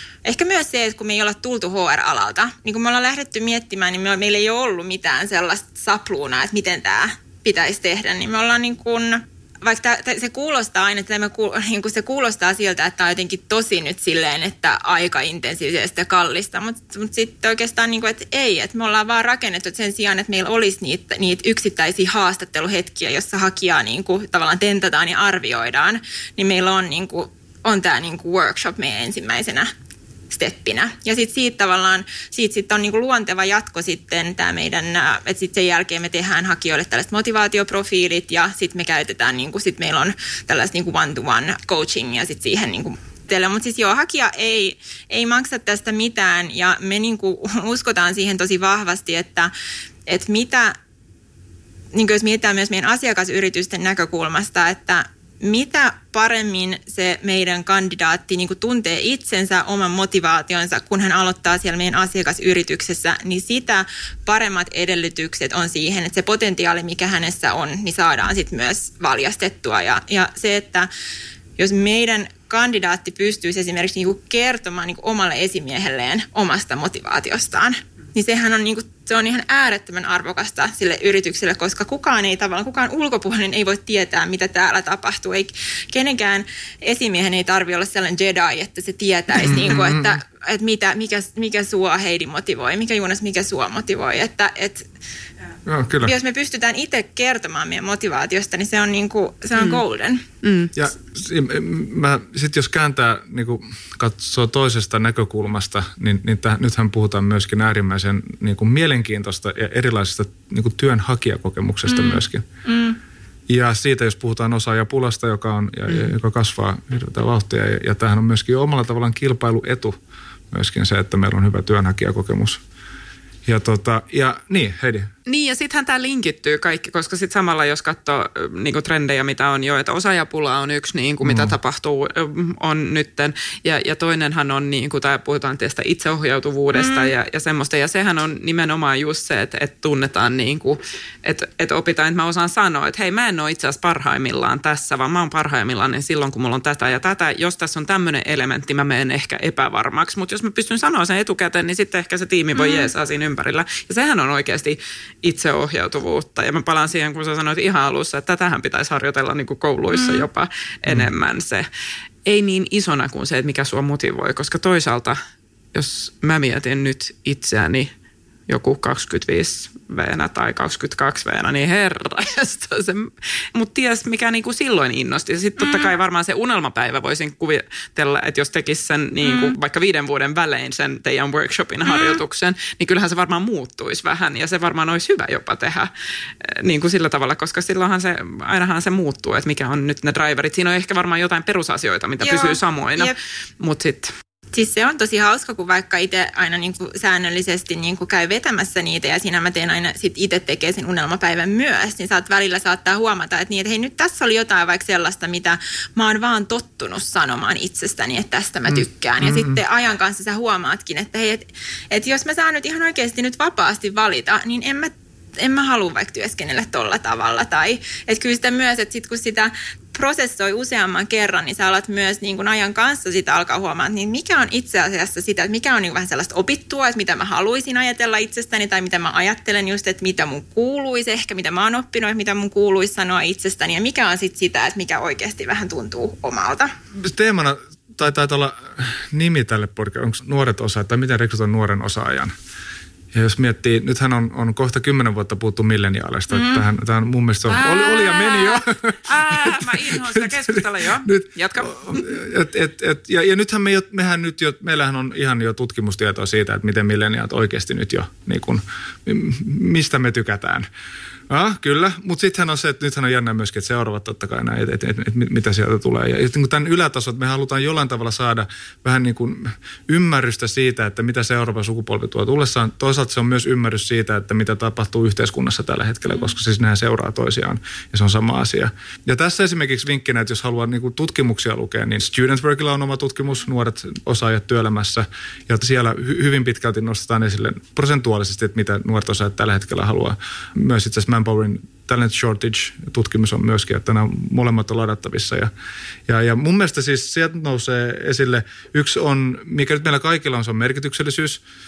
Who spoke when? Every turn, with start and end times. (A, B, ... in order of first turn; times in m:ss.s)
0:00.2-0:29.7 A
0:30.3-0:49.5 A
0:50.1-0:50.8 A
0:51.9-1:10.9 A
1:11.6-1:34.9 A
1:29.4-1:30.2 B
1:35.6-1:36.1 B
1:36.0-1:40.2 A
1:40.4-1:40.7 C
1:40.8-1:52.4 B
1:53.5-1:59.9 B
2:00.5-2:02.6 B
2:03.4-2:05.1 B
2:05.2-2:41.7 C
2:11.2-2:11.6 B
2:16.8-2:17.1 A
2:32.6-2:32.9 A
2:39.9-2:40.2 A
2:42.2-2:45.2 C
2:45.7-2:47.9 C
2:48.5-3:05.9 C
2:55.6-2:55.9 A
2:59.2-2:59.5 A
3:01.9-3:02.2 A
3:06.4-3:14.1 C
3:12.2-3:13.2 A
3:14.5-3:56.7 A
3:29.2-3:29.6 B
3:57.0-4:02.3 B
4:03.1-4:20.6 B
4:07.5-4:12.2 C
4:21.3-4:55.5 B
4:56.1-5:01.4 B